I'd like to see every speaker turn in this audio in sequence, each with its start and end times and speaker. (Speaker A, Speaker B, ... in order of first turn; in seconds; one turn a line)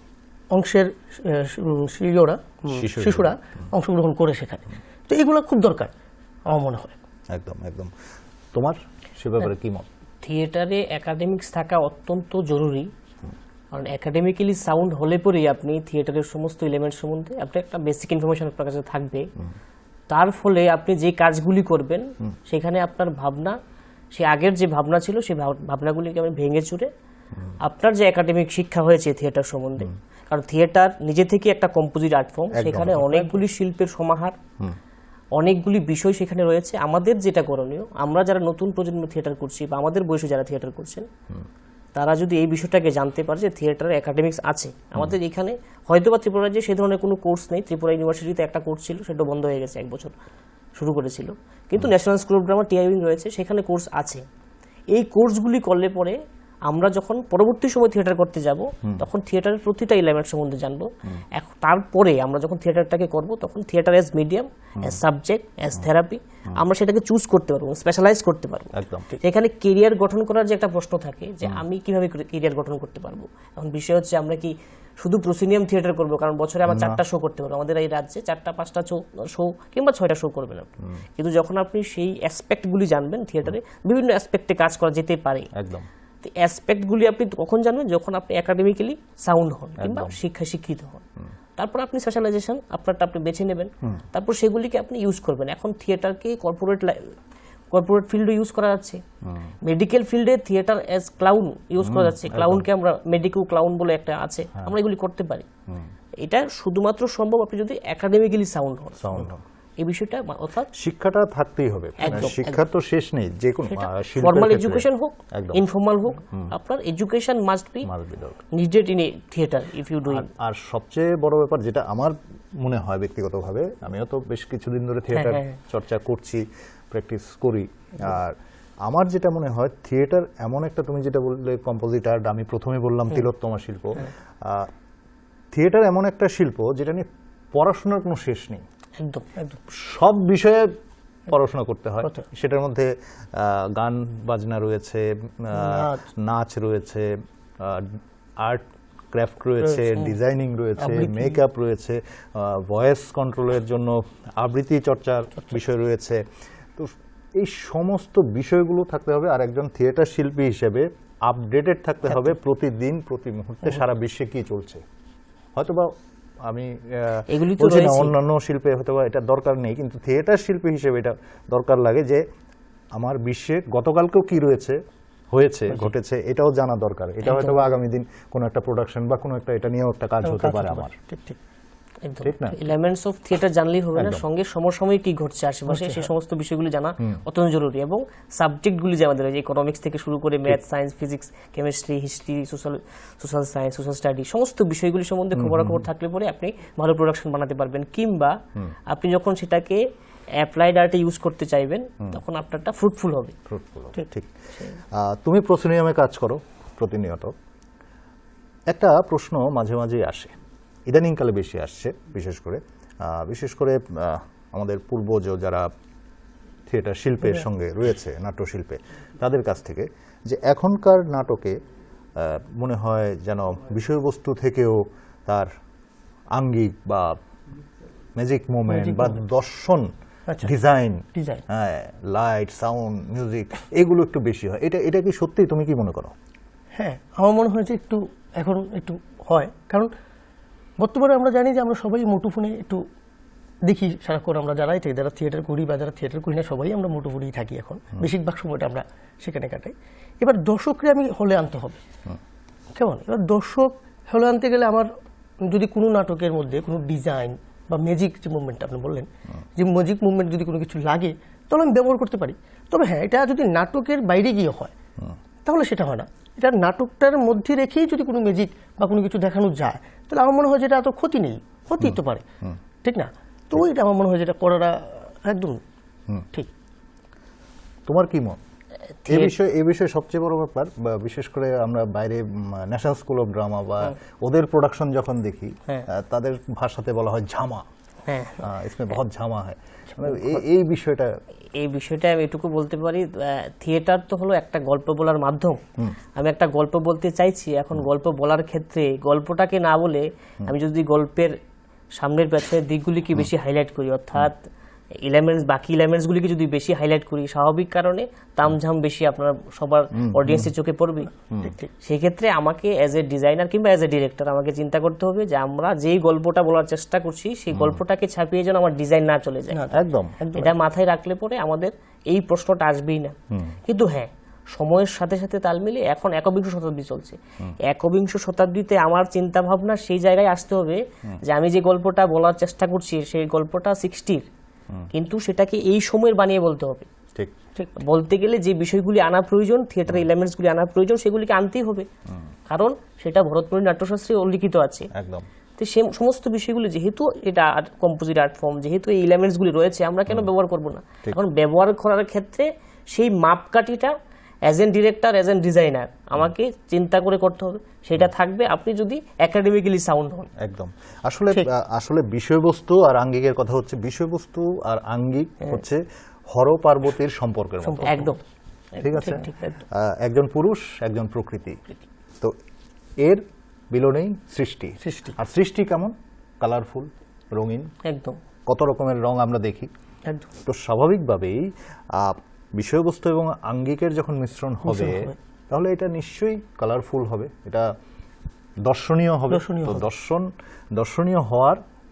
Speaker A: 0.5-5.9
Speaker B: 2.7-3.3
Speaker A: 6.5-6.9
Speaker B: 7.3-7.9
Speaker B: 8.5-9.9
Speaker C: 10.2-12.9
Speaker C: 13.7-19.3
Speaker C: 20.1-23.6
Speaker C: 24.1-26.9
Speaker C: 27.6-34.4
Speaker B: 32.5-33.3
Speaker C: 35.4-41.1
Speaker C: 41.9-50.1
Speaker C: 50.8-54.2
Speaker C: 54.9-85.5
Speaker B: 68.7-69.1
Speaker B: 76.7-77.0
Speaker B: 85.5-85.9
Speaker C: 86.2-91.0
Speaker B: 89.8-90.2
Speaker C: 91.6-97.1
Speaker C: 97.7-99.0
Speaker B: 99.2-99.5
Speaker C: 99.6-105.5
Speaker B: 101.8-102.7
Speaker C: 106.2-109.3
Speaker B: 109.0-109.4
Speaker C: 109.8-110.7
Speaker B: 110.7-115.6
Speaker C: 112.0-112.6
Speaker C: 113.7-117.9
Speaker B: 117.8-118.4
Speaker C: 118.5-120.3
Speaker B: 120.1-134.7
Speaker C: 125.1-125.6
Speaker B: 135.5-138.6
Speaker C: 139.0-139.2
Speaker B: 139.7-140.8
Speaker B: 141.3-156.2
Speaker A: 145.5-146.0
Speaker A: 150.8-151.4
Speaker B: 156.7-164.8
Speaker B: 165.5-172.2
Speaker C: 167.3-168.1
Speaker B: 172.9-174.8
Speaker B: 175.3-180.9
Speaker C: 177.2-177.6
Speaker A: 180.2-181.4
Speaker C: 182.0-198.4
Speaker B: 182.2-182.6
Speaker B: 183.9-184.2
Speaker A: 185.7-186.1
Speaker B: 195.3-195.8
Speaker C: 198.9-199.8
Speaker C: 200.4-203.3
Speaker B: 203.5-204.3
Speaker B: 204.9-207.3
Speaker B: 208.7-210.3
Speaker B: 210.9-215.7
Speaker B: 216.7-221.6
Speaker B: 222.2-225.5
Speaker B: 226.3-227.2
Speaker B: 228.2-229.9
Speaker A: 228.7-229.2
Speaker A: 230.3-230.5
Speaker B: 230.4-236.1
Speaker A: 231.1-231.4
Speaker A: 236.8-239.9
Speaker A: 240.8-242.8
Speaker A: 243.6-251.8
Speaker A: 252.7-254.9
Speaker A: 255.4-264.7
Speaker A: 265.4-272.2
Speaker B: 271.8-272.6
Speaker A: 272.8-275.6
Speaker B: 277.9-278.4
Speaker C: 279.0-279.3
Speaker B: 279.1-287.6
Speaker C: 288.1-288.5
Speaker B: 288.4-291.1
Speaker A: 290.0-290.3
Speaker C: 291.6-295.6
Speaker C: 296.1-301.4
Speaker C: 301.9-304.4
Speaker C: 305.0-311.1
Speaker B: 309.9-310.5
Speaker A: 311.4-311.7
Speaker C: 311.8-319.6
Speaker B: 317.5-317.8
Speaker A: 319.5-320.5
Speaker B: 319.7-320.2
Speaker C: 320.3-323.1
Speaker B: 323.3-323.6
Speaker C: 323.6-334.3
Speaker C: 334.9-336.9
Speaker C: 337.8-341.9
Speaker C: 342.5-344.9
Speaker B: 344.9-345.3
Speaker C: 345.6-353.9
Speaker C: 354.4-360.3
Speaker B: 360.4-368.1
Speaker A: 367.6-368.1
Speaker C: 367.8-368.2
Speaker B: 368.8-371.6
Speaker A: 368.8-369.5
Speaker B: 373.0-377.7
Speaker A: 374.8-375.1
Speaker C: 377.8-378.2
Speaker B: 378.5-379.7
Speaker B: 380.4-387.7
Speaker A: 384.6-385.1
Speaker B: 388.6-391.6
Speaker A: 389.3-389.8